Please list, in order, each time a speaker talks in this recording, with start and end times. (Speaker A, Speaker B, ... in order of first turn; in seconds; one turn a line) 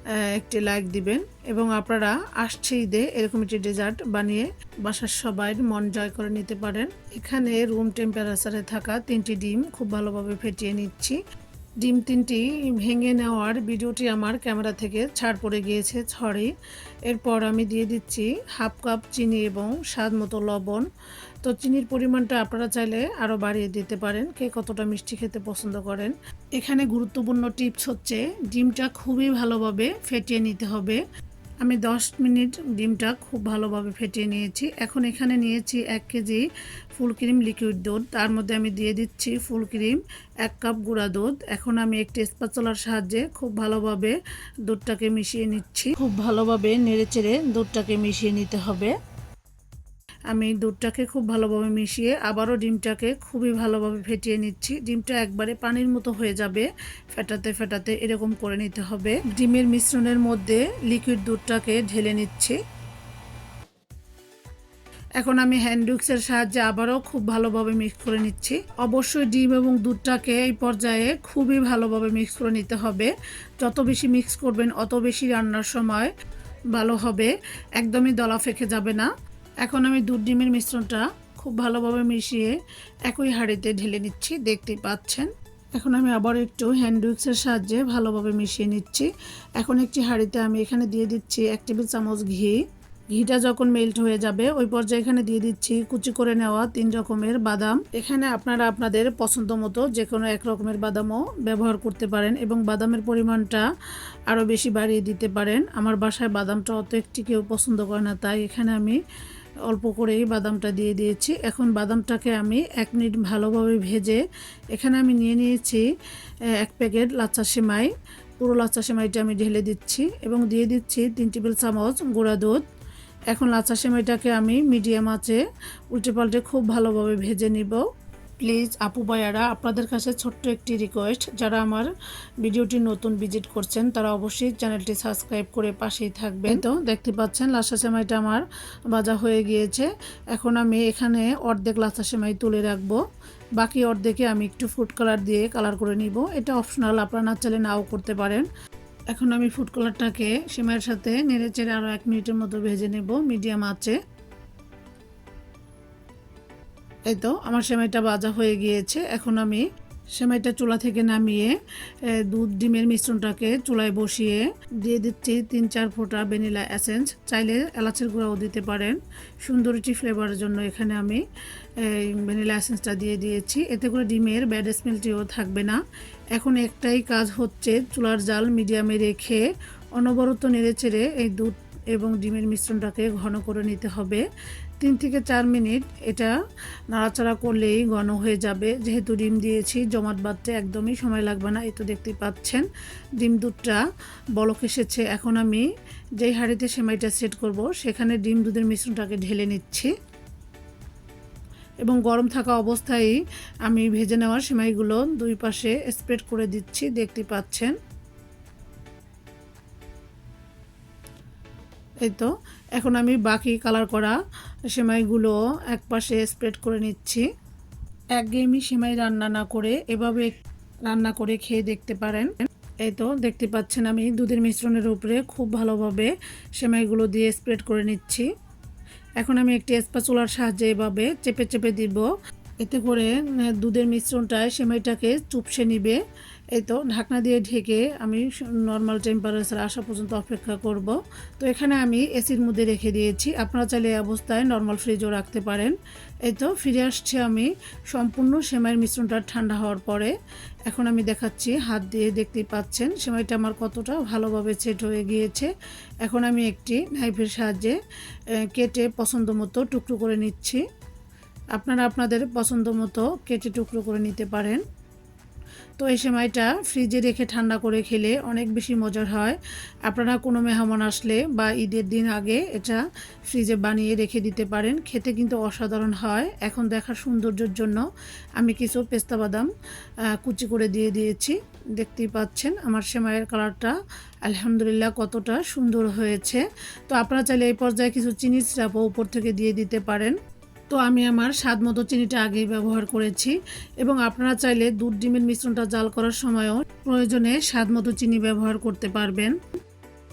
Speaker A: 0.3-11.2
Speaker A: 11.8-16.5
Speaker A: 17.1-20.8
Speaker A: 21.4-31.0
Speaker A: 31.6-36.4
Speaker A: 37.0-44.1
Speaker A: 44.7-48.9
Speaker A: 50.3-62.5
Speaker A: 65.2-76.1
Speaker A: 76.7-79.1
Speaker A: 79.6-82.5
Speaker A: 83.1-92.6
Speaker A: 93.1-103.6
Speaker A: 104.3-109.0
Speaker A: 109.7-114.2
Speaker A: 114.7-115.8
Speaker A: 116.6-122.6
Speaker A: 123.3-125.4
Speaker A: 125.9-127.8
Speaker A: 128.4-131.9
Speaker A: 132.4-143.0
Speaker A: 143.6-148.4
Speaker A: 149.1-154.0
Speaker A: 157.1-161.5
Speaker A: 162.2-171.2
Speaker A: 171.8-175.8
Speaker A: 176.3-179.4
Speaker A: 179.9-184.2
Speaker A: 184.8-186.3
Speaker A: 186.9-192.7
Speaker A: 193.2-193.8
Speaker A: 194.4-195.7
Speaker A: 196.2-199.9
Speaker A: 201.8-207.7
Speaker A: 212.0-214.2
Speaker A: 214.7-217.2
Speaker A: 218.1-220.3
Speaker A: 220.8-222.3
Speaker A: 222.8-228.3
Speaker A: 229.2-232.1
Speaker A: 232.6-236.0
Speaker A: 236.5-245.7
Speaker A: 246.2-250.1
Speaker A: 250.7-255.5
Speaker A: 256.0-257.8
Speaker A: 258.4-260.6
Speaker A: 261.6-264.6
Speaker A: 265.8-277.8
Speaker A: 278.4-279.5
Speaker A: 280.2-283.7
Speaker A: 284.2-290.1
Speaker A: 290.7-299.3